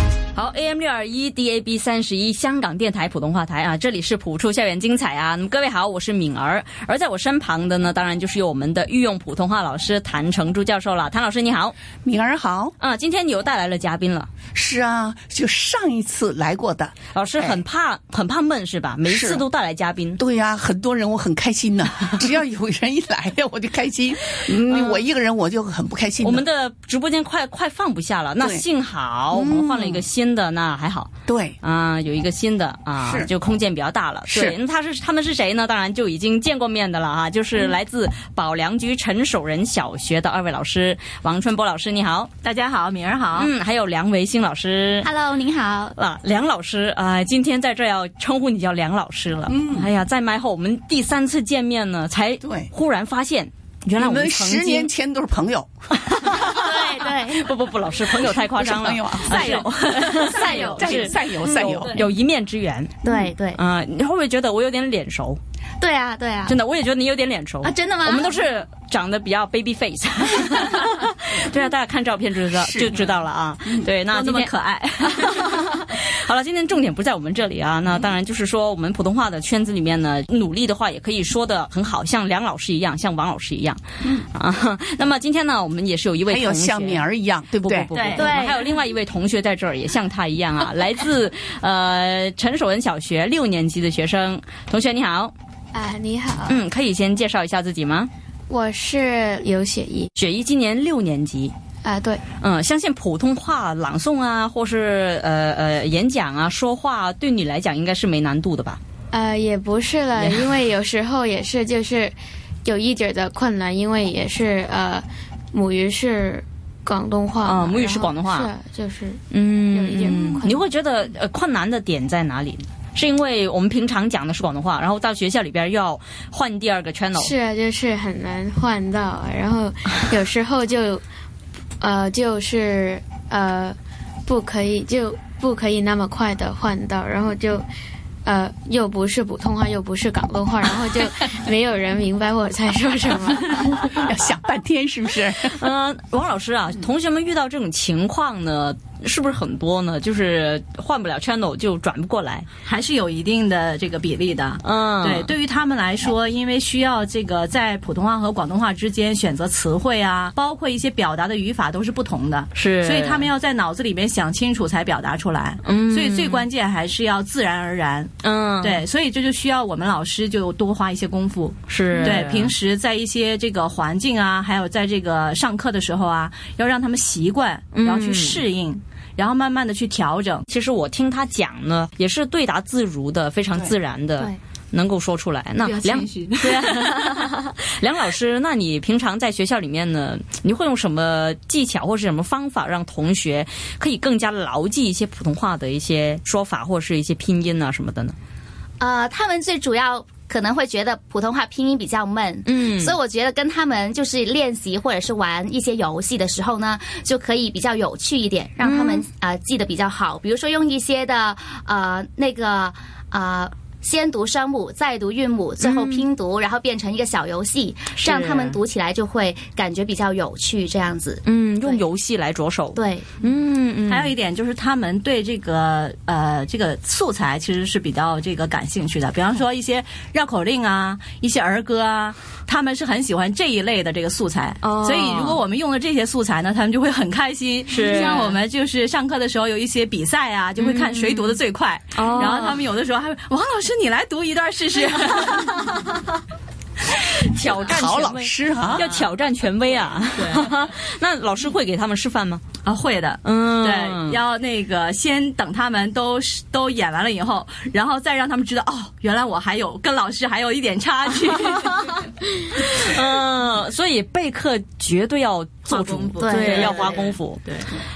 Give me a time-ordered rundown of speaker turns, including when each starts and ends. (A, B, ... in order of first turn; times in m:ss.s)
0:00.3-0:11.8 A
0:12.0-0:12.7 B
0:12.8-0:14.3 A
0:14.5-0:17.6 B
0:17.1-0:20.2 A
0:19.1-0:19.4 B
0:20.2-0:26.4 B
0:24.7-0:25.0 A
0:26.2-0:31.1 A
0:28.4-0:28.6 B
0:29.3-0:30.0 B
0:31.3-0:31.6 B
0:31.6-0:42.3 A
0:33.0-0:33.3 B
0:34.3-0:34.6 B
0:42.4-0:43.5 C
0:43.4-0:45.1 A
0:45.0-0:46.0 D
0:46.0-0:54.9 A
0:49.5-0:49.9 B
0:52.4-0:52.7 B
0:54.0-0:55.7 B
0:55.9-1:05.4 A
0:56.4-0:57.5 D
0:58.4-0:59.5 B
0:59.2-1:01.4 D
0:59.3-1:00.5 C
1:00.6-1:02.0 B
1:03.0-1:03.6 D
1:05.8-1:06.6 D
1:06.4-1:27.0 A
1:07.6-1:08.4 D
1:12.6-1:13.1 B
1:14.1-1:15.7 C
1:26.3-1:27.9 B
1:27.6-1:35.3 A
1:27.9-1:28.5 C
1:28.2-1:28.6 D
1:35.7-1:36.6 E
1:36.5-1:38.1 A
1:38.5-1:40.1 E
1:40.2-1:41.5 A
1:41.8-1:42.2 E
1:42.4-1:48.8 A
1:49.1-2:00.6 E
1:50.2-1:50.5 A
1:57.4-1:58.5 A
1:59.3-2:07.3 A
2:07.1-2:11.0 E
2:11.8-2:17.6 E
2:18.2-2:24.0 E
2:23.8-2:25.6 B
2:25.4-2:32.5 A
2:32.6-3:00.4 C
2:34.6-2:35.3 A
2:42.5-2:43.2 A
2:45.6-2:46.5 A
2:48.2-2:48.8 A
2:51.7-2:52.5 A
2:57.7-2:58.4 A
3:00.5-3:18.1 A
3:05.6-3:07.3 C
3:18.8-3:41.8 D
3:22.4-3:23.0 A
3:28.6-3:29.0 A
3:35.6-3:36.0 A
3:37.9-3:38.6 A
3:41.2-3:44.1 A
3:42.7-3:43.1 D
3:43.9-4:05.8 C
3:54.6-3:55.4 A
3:57.7-3:58.4 A
4:00.6-4:01.4 A
4:01.9-4:02.6 A
4:06.9-4:12.4 A
4:07.6-4:08.8 B
4:08.8-4:09.0 C
4:10.2-4:10.5 C
4:12.6-4:22.1 C
4:13.2-4:14.2 A
4:22.5-4:27.4 A
4:25.7-4:27.8 C
4:26.2-4:26.9 D